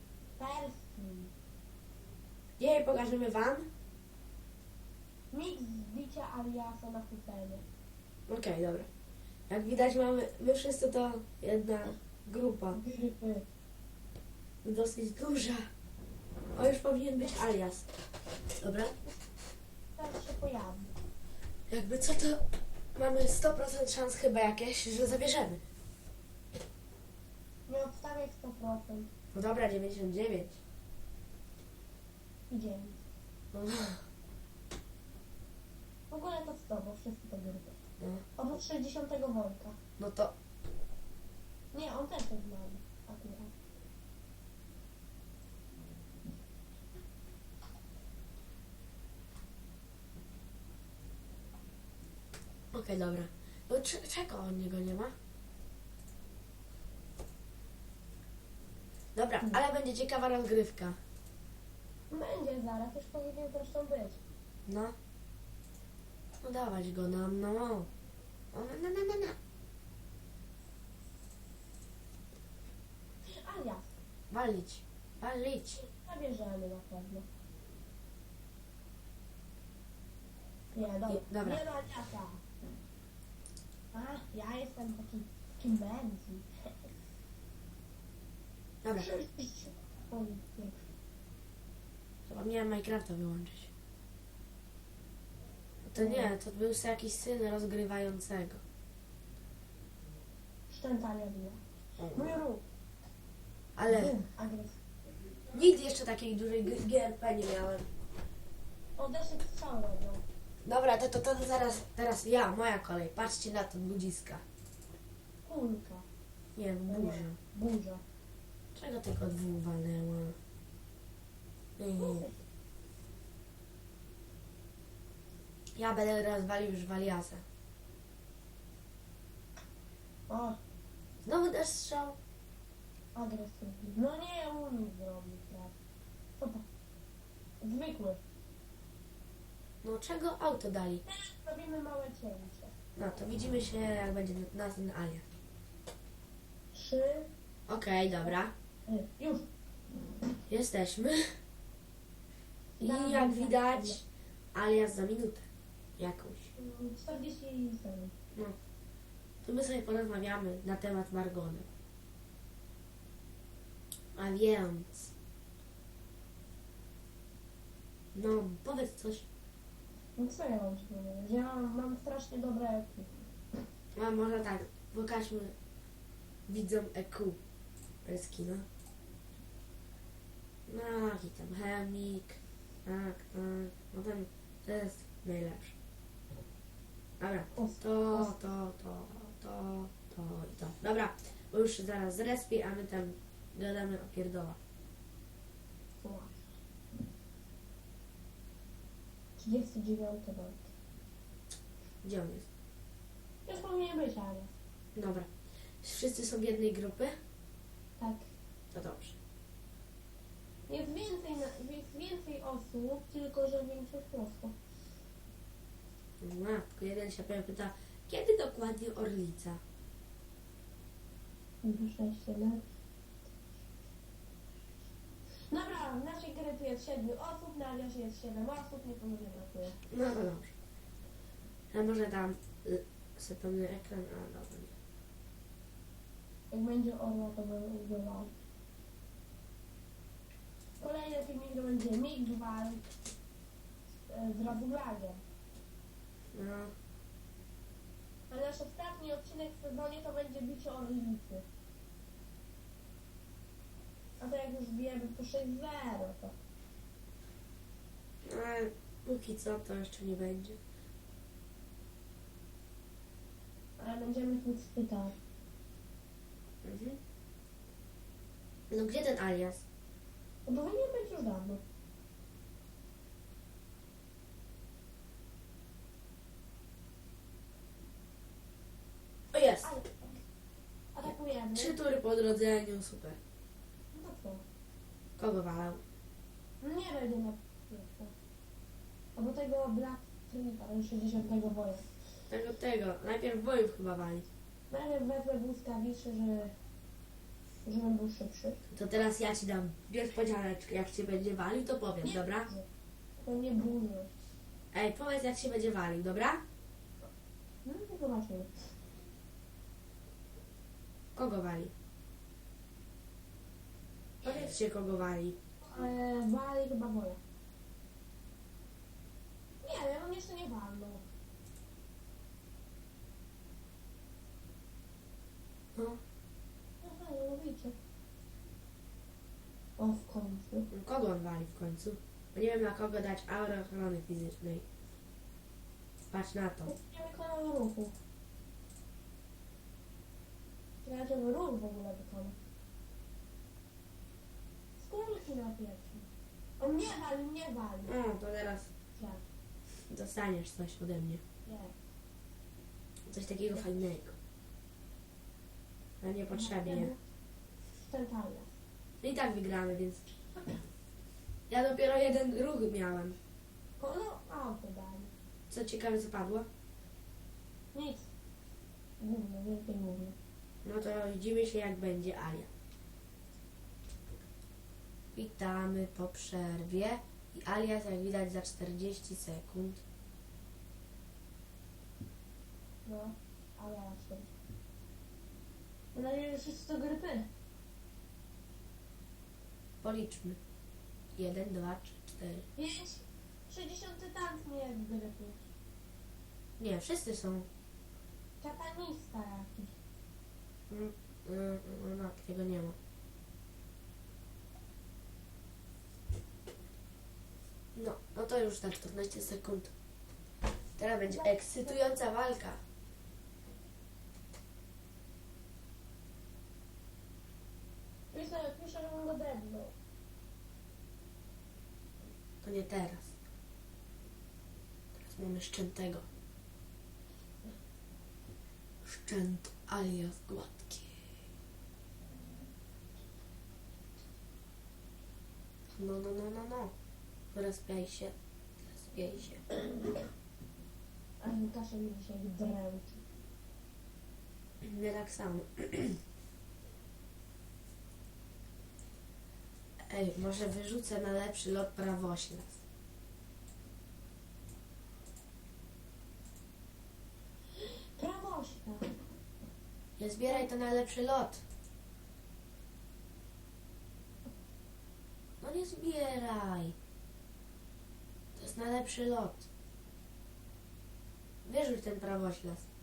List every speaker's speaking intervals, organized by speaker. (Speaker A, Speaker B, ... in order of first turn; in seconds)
Speaker A: 0.4-1.3, 5.3-7.6, 12.7-13.4, 19.9-20.9, 27.7-29.1, 32.5-33.0, 36.1-37.8, 38.4-39.8, 41.7-43.5, 62.1-64.2, 73.3-74.0, 75.8-77.3, 80.7-82.4, 83.9-86.9, 89.0-90.9, 96.0-96.3, 100.7-101.6, 102.1-102.6, 103.9-104.8, 109.0-110.2, 115.4-116.0, 116.9-118.0, 122.0-122.3, 130.3-130.6, 133.1-135.7, 136.4-136.6, 137.6-138.2, 141.0-142.7, 146.7-147.3, 148.9-149.5, 152.8-154.0, 156.6-158.1, 170.2-173.1, 187.5-188.3, 196.0-196.4, 199.4-200.7, 203.4-204.5, 208.0-208.3, 210.7-214.5, 221.6-222.6, 225.5-229.8, 236.5-238.3, 240.8-242.9, 244.1-245.2, 248.3-251.4, 254.2-256.3, 263.8-265.1, 270.4-271.6, 279.6-280.0, 280.9-281.7, 283.9-284.4, 286.6-288.1, 289.1-291.9, 294.7-296.6, 297.6-298.6, 302.0-302.6, 303.2-304.1, 307.6-308.7, 315.6-317.2, 319.6-321.0, 326.8-327.8, 329.8-330.7, 336.6-337.9, 340.8-342.4, 344.8-346.1, 346.6-347.9, 348.9-349.2, 351.4-351.7, 356.3-357.0, 357.9-358.5, 363.8-365.1, 367.7-368.1, 369.0-370.1, 382.8-384.3, 385.9-387.3, 392.6-395.4, 398.4-399.8, 411.1-411.8, 418.1-419.7, 441.2-443.0, 457.6-458.9
Speaker B: 2.6-3.6, 8.3-8.9, 9.5-12.8, 14.6-15.7, 16.5-17.9, 18.6-19.0, 21.7-22.4, 22.9-25.6, 29.3-30.6, 33.5-34.0, 38.0-38.2, 40.0-40.3, 52.7-55.1, 59.1-61.0, 64.7-64.9, 66.4-67.9, 68.5-69.3, 74.3-75.8, 81.1-81.6, 92.2-93.7, 95.8-98.6, 102.0-102.4, 103.8-104.1, 105.5-107.8, 110.6-114.4, 116.5-117.4, 118.7-120.4, 121.8-122.2, 125.8-127.4, 131.2-132.2, 139.8-141.0, 142.9-145.2, 147.7-148.5, 150.5-151.2, 152.8-154.0, 154.5-155.4, 156.0-156.5, 159.4-161.7, 164.1-165.1, 168.1-169.3, 173.9-175.5, 176.5-177.4, 178.0-178.7, 180.7-185.8, 187.2-194.6, 202.0-202.5, 204.9-205.3, 205.8-207.1, 208.7-209.2, 216.2-219.6, 229.8-230.5, 231.7-234.7, 246.3-246.7, 258.2-260.6, 266.6-267.0, 268.7-269.6, 279.3-279.7, 281.5-283.2, 285.2-285.8, 292.3-294.2, 298.7-302.5, 304.7-306.4, 311.1-311.7, 314.2-315.4, 325.7-326.0, 330.7-334.6, 336.1-336.7, 347.8-348.7, 349.9-351.2, 353.1-354.1, 356.0-356.9, 359.0-360.0, 361.5-363.2, 365.5-366.5, 370.6-372.5, 375.1-379.8, 389.8-390.4, 391.1-392.4, 396.6-397.5, 400.7-402.8, 407.7-409.7, 410.8-412.6, 422.4-423.1, 425.0-426.1, 428.8-431.0, 435.8-436.7, 437.3-439.4, 444.6-446.0, 449.9-452.6, 460.0-461.4, 465.4-466.7, 468.4-469.5, 471.4-472.6